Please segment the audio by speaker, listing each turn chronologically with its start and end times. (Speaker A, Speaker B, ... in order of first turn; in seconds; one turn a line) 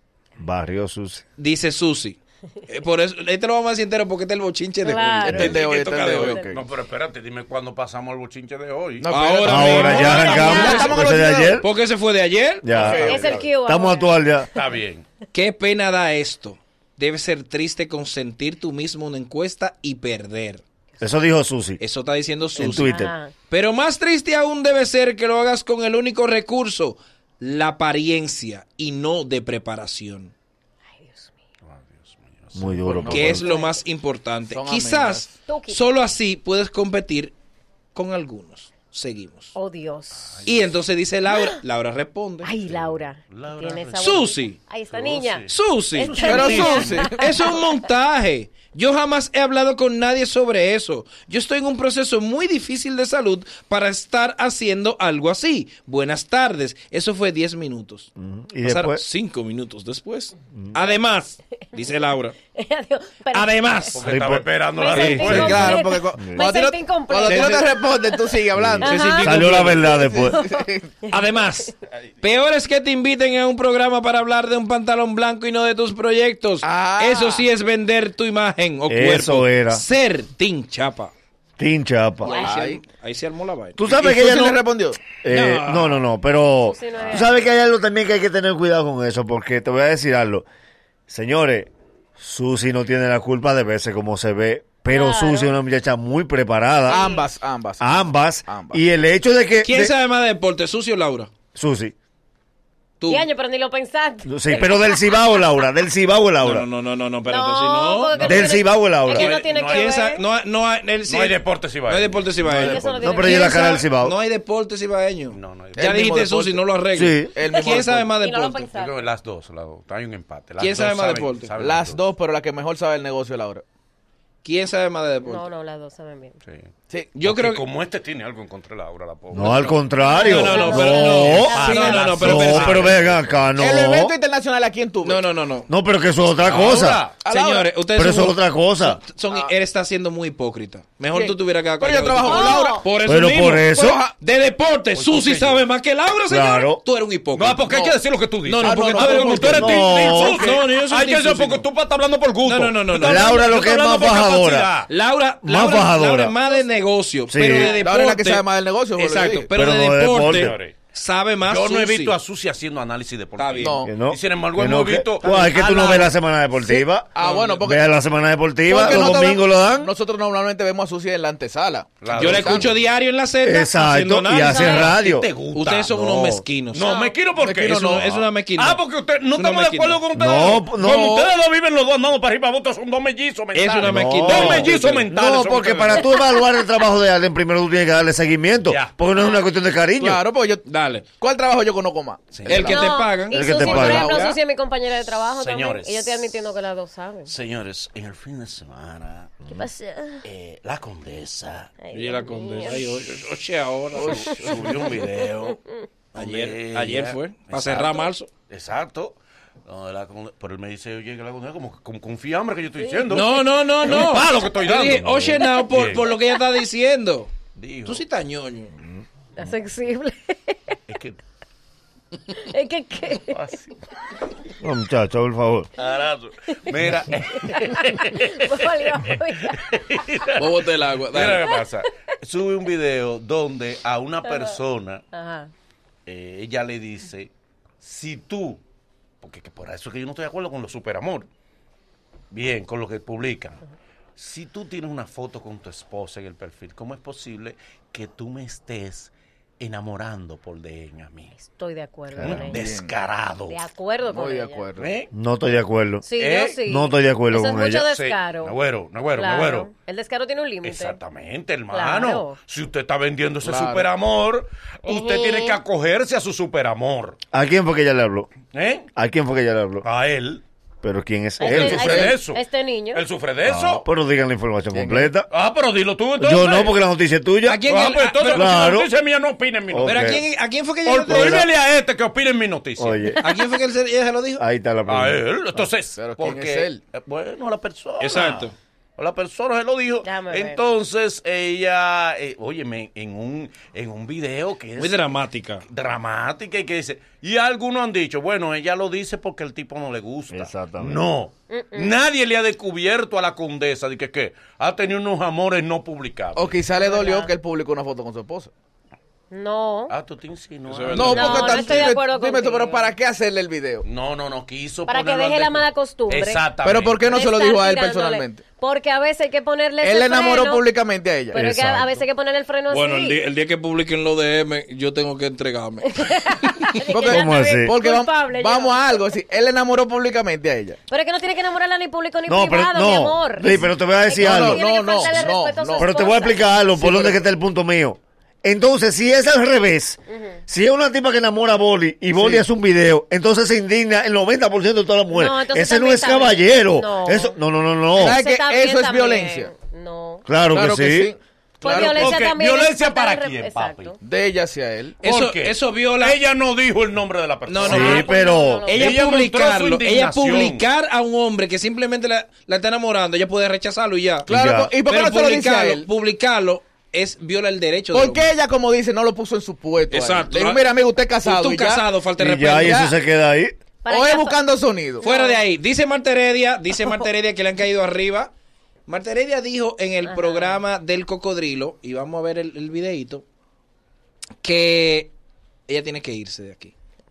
Speaker A: 0.4-1.2
Speaker B: 1.4-6.4
Speaker C: 4.8-6.5
Speaker D: 5.2-6.6
Speaker E: 6.5-11.1
Speaker D: 9.0-11.7
Speaker B: 9.1-11.0
Speaker A: 9.4-11.7
Speaker C: 10.4-11.0
Speaker B: 11.6-12.7
Speaker A: 12.6-14.5
Speaker E: 12.7-13.5
Speaker D: 12.7-13.4
Speaker C: 13.0-14.2
Speaker E: 14.5-15.0
Speaker B: 15.3-20.6
Speaker A: 21.0-21.8
Speaker B: 21.8-30.3
Speaker A: 22.6-23.1
Speaker C: 22.7-23.3
Speaker C: 31.0-31.3
Speaker E: 31.7-33.3
Speaker A: 32.5-33.4
Speaker B: 33.0-37.3
Speaker C: 33.3-33.8
Speaker D: 34.5-35.3
Speaker C: 35.5-35.9
Speaker B: 37.9-39.5
Speaker C: 39.5-40.4
Speaker E: 40.2-40.7
Speaker B: 40.5-42.5
Speaker C: 41.3-41.6
Speaker C: 42.4-47.7
Speaker E: 42.7-44.2
Speaker B: 44.0-44.6
Speaker E: 44.9-47.1
Speaker B: 45.5-58.1
Speaker D: 46.3-47.2
Speaker A: 58.1-59.0
Speaker B: 58.6-62.4
Speaker C: 61.7-63.9
Speaker B: 63.3-64.0
Speaker E: 63.9-65.8
Speaker A: 64.0-64.5
Speaker C: 64.7-67.9
Speaker B: 64.9-65.8
Speaker D: 65.2-68.9
Speaker A: 66.2-66.4
Speaker B: 67.2-67.7
Speaker A: 68.5-70.4
Speaker B: 68.8-70.0
Speaker C: 68.8-71.3
Speaker D: 69.8-70.9
Speaker B: 71.1-81.1
Speaker D: 76.6-77.5
Speaker A: 78.9-79.8
Speaker A: 81.6-82.3
Speaker B: 82.2-83.8
Speaker D: 82.3-82.8
Speaker A: 83.8-84.6
Speaker D: 83.9-85.0
Speaker A: 85.2-90.5
Speaker B: 85.2-86.0
Speaker C: 86.6-87.4
Speaker A: 91.1-97.2
Speaker C: 94.9-95.5
Speaker C: 96.9-97.2
Speaker D: 96.9-98.8
Speaker A: 97.8-99.9
Speaker B: 99.6-101.3
Speaker A: 101.5-101.9
Speaker B: 103.0-103.3
Speaker C: 103.0-105.2
Speaker A: 104.2-106.7
Speaker B: 106.4-108.2
Speaker C: 107.2-110.2
Speaker E: 108.1-108.6
Speaker A: 108.2-109.4
Speaker E: 109.1-109.9
Speaker B: 109.5-118.7
Speaker E: 111.1-113.3
Speaker C: 112.5-113.8
Speaker A: 113.0-114.2
Speaker E: 115.3-116.2
Speaker D: 115.8-116.6
Speaker A: 116.9-117.3
Speaker D: 117.3-118.1
Speaker C: 118.2-119.0
Speaker E: 118.7-122.0
Speaker B: 120.6-121.5
Speaker D: 121.6-123.6
Speaker B: 124.4-125.5
Speaker C: 125.2-126.3
Speaker B: 127.1-127.6
Speaker E: 127.2-130.2
Speaker A: 129.3-131.6
Speaker C: 130.0-132.2
Speaker B: 130.1-133.0
Speaker E: 130.8-133.4
Speaker D: 131.6-132.1
Speaker A: 132.1-134.1
Speaker D: 133.6-135.2
Speaker B: 135.0-135.7
Speaker A: 135.7-137.0
Speaker E: 136.4-137.2
Speaker B: 136.5-147.7
Speaker D: 137.2-137.7
Speaker A: 137.9-139.0
Speaker D: 141.1-142.8
Speaker C: 142.2-142.8
Speaker A: 143.1-144.0
Speaker D: 143.7-144.1
Speaker E: 144.9-145.6
Speaker A: 146.3-146.8
Speaker E: 147.3-154.9
Speaker D: 147.7-147.9
Speaker B: 148.4-151.7
Speaker D: 148.6-150.6
Speaker A: 149.5-150.4
Speaker B: 152.4-153.4
Speaker A: 152.9-154.7
Speaker B: 154.9-162.1
Speaker A: 155.4-156.3
Speaker A: 157.3-157.8
Speaker C: 157.6-157.8
Speaker D: 157.8-159.5
Speaker A: 159.5-160.6
Speaker E: 160.2-160.7
Speaker E: 161.4-165.3
Speaker B: 163.4-163.8
Speaker D: 163.6-163.9
Speaker A: 163.8-169.9
Speaker B: 165.2-166.1
Speaker D: 165.6-166.0
Speaker D: 167.1-167.9
Speaker B: 167.2-167.7
Speaker D: 168.7-172.7
Speaker E: 172.0-172.8
Speaker B: 172.1-174.9
Speaker A: 173.4-175.3
Speaker C: 174.4-175.0
Speaker E: 174.8-175.9
Speaker B: 175.5-176.9
Speaker A: 175.9-176.4
Speaker E: 176.7-186.1
Speaker C: 176.8-177.2
Speaker D: 177.4-178.1
Speaker B: 177.6-178.8
Speaker B: 179.3-180.0
Speaker A: 180.1-181.2
Speaker D: 180.8-181.3
Speaker B: 183.5-185.1
Speaker A: 183.8-190.2
Speaker C: 186.1-186.4
Speaker E: 188.7-189.0
Speaker D: 190.0-190.7
Speaker B: 190.7-191.1
Speaker D: 191.2-192.8
Speaker E: 192.3-192.8
Speaker B: 192.4-194.4
Speaker C: 192.6-197.3
Speaker A: 193.3-194.1
Speaker D: 193.7-194.1
Speaker E: 195.4-196.3
Speaker E: 197.3-199.4
Speaker C: 199.5-200.2
Speaker E: 200.2-201.7
Speaker C: 201.8-202.9
Speaker B: 201.9-204.6
Speaker D: 203.9-204.7
Speaker E: 204.0-205.6
Speaker C: 204.3-205.8
Speaker E: 206.1-216.1
Speaker B: 206.1-208.3
Speaker C: 212.8-213.1
Speaker B: 213.1-217.3
Speaker E: 217.5-218.0
Speaker B: 217.8-218.8
Speaker C: 219.4-220.8
Speaker E: 220.9-221.2
Speaker C: 222.3-223.4
Speaker E: 223.2-223.7
Speaker A: 224.6-225.7
Speaker E: 225.8-235.0
Speaker C: 227.3-229.6
Speaker D: 230.4-231.5
Speaker C: 234.2-234.6
Speaker C: 235.1-235.5
Speaker E: 236.1-237.3
Speaker E: 237.8-238.6
Speaker E: 239.2-241.3
Speaker E: 242.3-243.6
Speaker E: 244.2-251.3
Speaker C: 251.3-252.6
Speaker A: 252.1-252.4
Speaker E: 252.2-253.6
Speaker D: 252.3-252.9
Speaker C: 253.5-254.7
Speaker D: 254.1-254.9
Speaker E: 254.8-255.1
Speaker A: 255.1-256.0
Speaker C: 256.0-258.6
Speaker E: 256.2-256.6
Speaker A: 256.6-257.9
Speaker E: 257.9-259.7
Speaker C: 259.1-261.0
Speaker E: 260.6-267.2
Speaker C: 261.7-262.4
Speaker D: 263.4-263.9
Speaker C: 264.9-265.6
Speaker A: 267.3-268.3
Speaker E: 268.5-268.9
Speaker A: 268.9-269.8
Speaker E: 269.8-270.4
Speaker A: 270.8-272.1
Speaker C: 271.4-273.0
Speaker E: 271.4-273.8
Speaker A: 273.4-275.3
Speaker D: 274.7-275.1
Speaker E: 275.3-276.8
Speaker A: 276.2-277.6
Speaker B: 277.4-278.5
Speaker E: 277.7-280.2
Speaker A: 278.3-278.9
Speaker A: 279.7-280.2
Speaker B: 279.8-281.4
Speaker E: 280.8-283.2
Speaker A: 281.1-281.5
Speaker A: 282.8-283.2
Speaker B: 283.2-284.4
Speaker A: 284.4-285.2
Speaker E: 284.9-306.6
Speaker D: 286.0-286.8
Speaker B: 288.0-288.5
Speaker C: 290.0-290.6
Speaker B: 294.8-295.6
Speaker A: 300.3-301.0
Speaker C: 301.5-301.9
Speaker D: 306.4-308.5
Speaker C: 306.8-307.3
Speaker C: 309.3-309.9
Speaker E: 309.9-312.0
Speaker B: 310.7-311.8
Speaker D: 310.9-313.8
Speaker C: 311.1-312.9
Speaker E: 313.8-317.2
Speaker C: 314.9-316.4
Speaker D: 316.6-318.4
Speaker C: 317.0-320.7
Speaker D: 319.8-321.7
Speaker C: 321.3-323.2
Speaker A: 321.3-321.9
Speaker B: 322.7-326.8
Speaker C: 325.9-329.1
Speaker D: 326.9-330.8
Speaker A: 327.1-327.7
Speaker C: 330.9-336.5
Speaker A: 332.3-348.2
Speaker D: 334.1-335.9
Speaker D: 336.7-337.2
Speaker C: 340.1-340.4
Speaker D: 342.1-342.4
Speaker C: 345.1-347.4
Speaker D: 347.9-349.5
Speaker C: 348.0-350.3
Speaker A: 350.3-351.1
Speaker D: 350.5-352.2
Speaker C: 351.6-354.0
Speaker E: 351.6-353.9
Speaker D: 354.0-355.0
Speaker B: 355.0-356.2
Speaker E: 355.0-358.1
Speaker B: 357.4-358.1
Speaker A: 357.6-358.7
Speaker C: 357.6-359.0
Speaker B: 358.6-364.3
Speaker E: 358.7-360.7
Speaker A: 364.3-364.7
Speaker D: 364.3-365.9
Speaker B: 364.9-368.3
Speaker D: 367.9-371.9
Speaker B: 369.9-370.6
Speaker B: 371.2-372.9
Speaker A: 372.2-373.6
Speaker D: 372.6-372.9
Speaker C: 373.8-374.4
Speaker D: 373.9-375.1
Speaker C: 375.0-375.4
Speaker B: 375.0-378.3
Speaker B: 378.9-383.2
Speaker C: 380.0-380.6
Speaker B: 384.4-385.1
Speaker B: 385.7-386.7